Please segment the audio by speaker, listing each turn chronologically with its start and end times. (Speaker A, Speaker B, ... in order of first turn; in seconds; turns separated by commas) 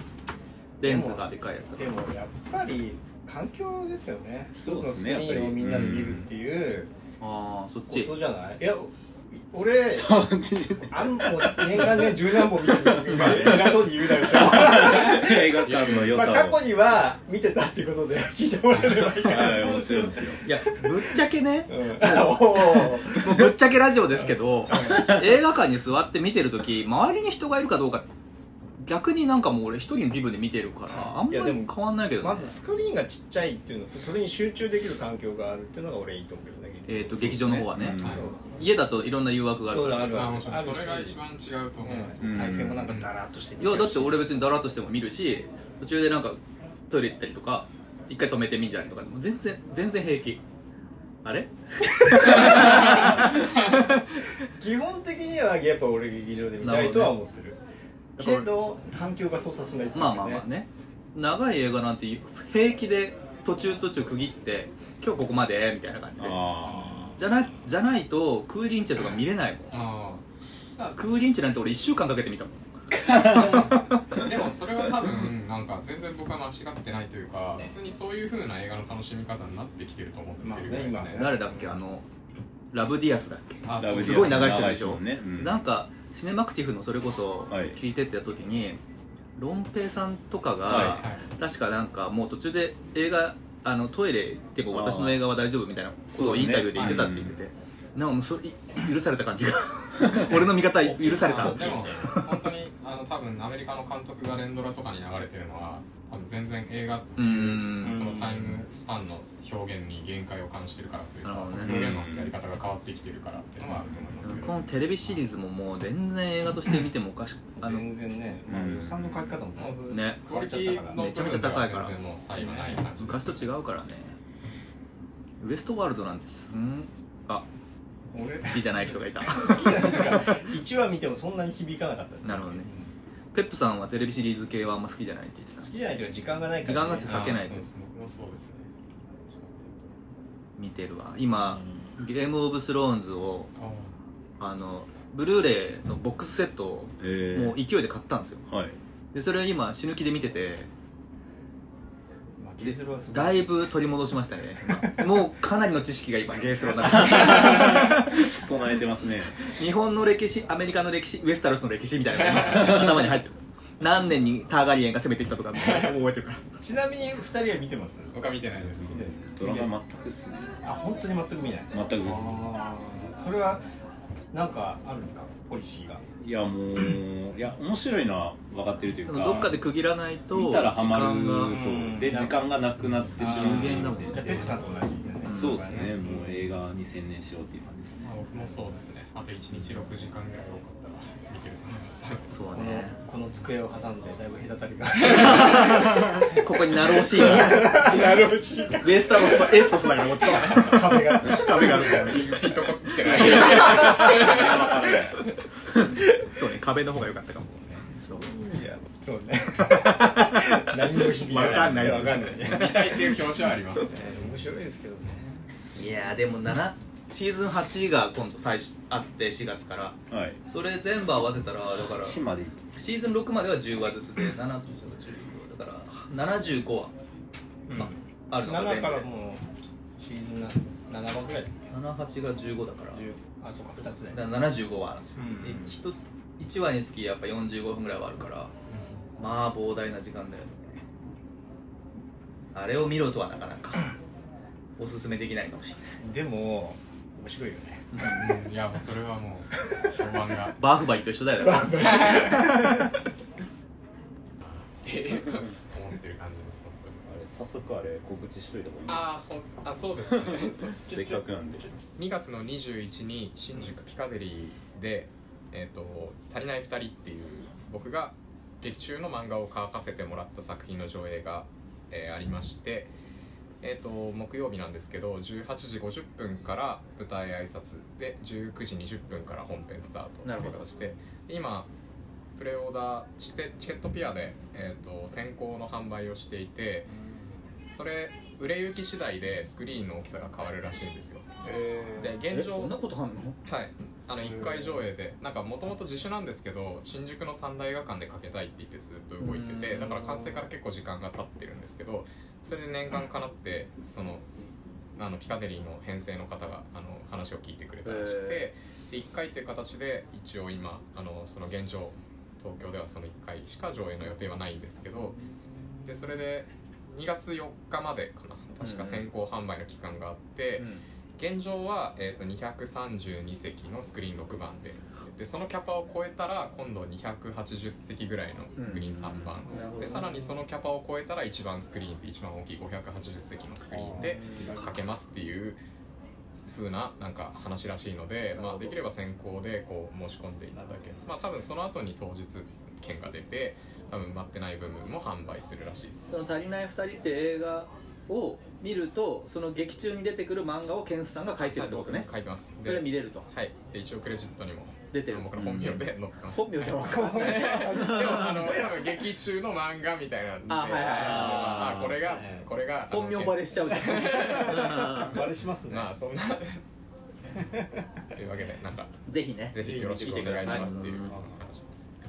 Speaker A: 0.8-2.0, Speaker B: 0.8-6.9, Speaker C: 4.5-6.3, Speaker A: 7.2-8.1, Speaker B: 7.9-10.3, Speaker C: 9.9-16.7, Speaker B: 10.9-23.5, Speaker D: 15.6-16.2, Speaker D: 18.7-19.1, Speaker C: 18.9-20.4, Speaker A: 20.4-28.1, Speaker B: 24.7-25.2, Speaker A: 28.8-32.5, Speaker B: 31.1-38.6, Speaker A: 36.9-40.5, Speaker C: 37.5-38.2, Speaker D: 38.0-38.2, Speaker B: 39.6-41.2, Speaker D: 40.1-43.1, Speaker B: 41.8-44.4, Speaker C: 42.2-42.9, Speaker A: 43.6-50.4, Speaker A: 51.2-53.3, Speaker B: 52.4-52.9, Speaker B: 54.5-57.6, Speaker A: 56.6-57.1, Speaker B: 58.2-60.4, Speaker A: 58.2-58.5, Speaker A: 59.9-66.5, Speaker C: 66.2-67.1, Speaker B: 66.7-67.1, Speaker A: 67.2-69.7, Speaker D: 69.7-70.2, Speaker A: 71.0-74.2, Speaker D: 73.1-81.2, Speaker B: 80.4-81.8, Speaker A: 81.1-82.0, Speaker A: 82.7-88.8, Speaker D: 83.6-84.7, Speaker C: 83.8-85.6, Speaker C: 87.5-87.8, Speaker A: 89.4-102.4, Speaker C: 90.7-91.0, Speaker D: 90.8-91.2, Speaker C: 94.7-95.2, Speaker C: 96.1-97.4, Speaker D: 96.8-97.0, Speaker D: 100.9-114.6, Speaker B: 101.0-101.9, Speaker A: 107.2-108.2, Speaker B: 107.8-108.5, Speaker A: 111.2-112.0, Speaker C: 111.6-112.3, Speaker A: 114.2-117.8, Speaker B: 117.6-121.0, Speaker C: 118.5-119.3, Speaker D: 119.6-123.5, Speaker A: 119.9-120.2, Speaker A: 120.9-124.2, Speaker A: 125.4-127.5, Speaker B: 128.1-132.9, Speaker A: 128.4-130.5, Speaker A: 132.2-132.7, Speaker A: 133.3-135.7, Speaker B: 135.6-137.4, Speaker A: 136.6-137.7, Speaker D: 137.1-138.7, Speaker A: 140.6-143.5, Speaker D: 143.6-143.9, Speaker A: 144.4-148.4, Speaker C: 147.0-147.6, Speaker C: 148.5-148.8, Speaker A: 149.1-150.7, Speaker B: 152.4-153.8, Speaker A: 152.6-158.3, Speaker B: 154.6-155.1, Speaker C: 156.8-159.4, Speaker A: 159.4-166.4, Speaker D: 162.1-162.8, Speaker D: 165.5-165.9, Speaker B: 166.6-168.2, Speaker D: 168.1-169.0, Speaker C: 168.6-170.6, Speaker B: 168.8-169.7, Speaker B: 170.6-173.7, Speaker C: 171.7-172.5, Speaker B: 174.3-176.0, Speaker C: 176.2-179.6, Speaker A: 179.1-182.3, Speaker C: 180.3-184.5, Speaker B: 181.5-182.3, Speaker A: 183.2-184.5, Speaker B: 183.2-186.3, Speaker A: 185.2-185.9, Speaker C: 185.3-188.1, Speaker D: 188.0-192.3, Speaker A: 192.3-193.0, Speaker B: 192.5-202.2, Speaker A: 195.0-198.2, Speaker A: 198.8-202.4, Speaker D: 201.5-204.7, Speaker A: 203.1-203.6, Speaker C: 203.2-205.2, Speaker B: 203.9-204.4, Speaker A: 206.2-208.3, Speaker B: 207.7-212.8, Speaker A: 209.9-213.1, Speaker D: 212.1-214.1, Speaker B: 213.9-215.4, Speaker A: 215.8-222.2, Speaker C: 220.1-220.4, Speaker C: 221.8-222.7, Speaker A: 222.8-226.9, Speaker B: 227.7-229.4, Speaker A: 227.7-229.0, Speaker B: 230.0-231.5, Speaker A: 231.7-233.1, Speaker B: 232.9-234.3, Speaker A: 234.1-238.5, Speaker B: 235.2-235.7, Speaker D: 238.7-239.1, Speaker A: 239.2-240.8, Speaker A: 242.5-243.9, Speaker A: 244.8-245.9, Speaker B: 246.0-247.9, Speaker A: 247.9-248.2, Speaker D: 248.0-250.6, Speaker A: 250.6-252.5, Speaker B: 251.4-252.9, Speaker D: 252.1-252.4, Speaker D: 254.4-257.0, Speaker C: 257.0-259.1, Speaker D: 258.9-260.8, Speaker C: 260.3-261.7, Speaker D: 261.9-272.9, Speaker D: 273.6-281.7, Speaker A: 280.2-280.6, Speaker D: 282.4-286.9, Speaker D: 287.7-291.3, Speaker B: 291.4-292.1, Speaker D: 292.0-292.8, Speaker A: 292.3-293.4, Speaker D: 293.4-304.2, Speaker B: 294.3-294.7, Speaker A: 299.2-300.2, Speaker D: 304.9-315.2, Speaker A: 307.8-308.5, Speaker D: 315.8-335.6, Speaker A: 318.6-319.0, Speaker A: 320.6-320.8, Speaker A: 328.6-330.2, Speaker B: 333.7-334.7, Speaker A: 333.9-334.7, Speaker D: 336.5-346.1, Speaker A: 338.3-338.8, Speaker A: 346.1-353.3, Speaker D: 351.5-365.1, Speaker A: 354.9-358.6, Speaker B: 356.7-358.8, Speaker A: 360.5-362.1, Speaker B: 360.9-362.5, Speaker A: 362.9-365.2, Speaker B: 364.2-365.9, Speaker D: 365.7-366.6, Speaker D: 368.1-368.9, Speaker A: 369.1-371.0, Speaker D: 369.5-371.9, Speaker B: 369.6-371.4, Speaker C: 370.7-371.1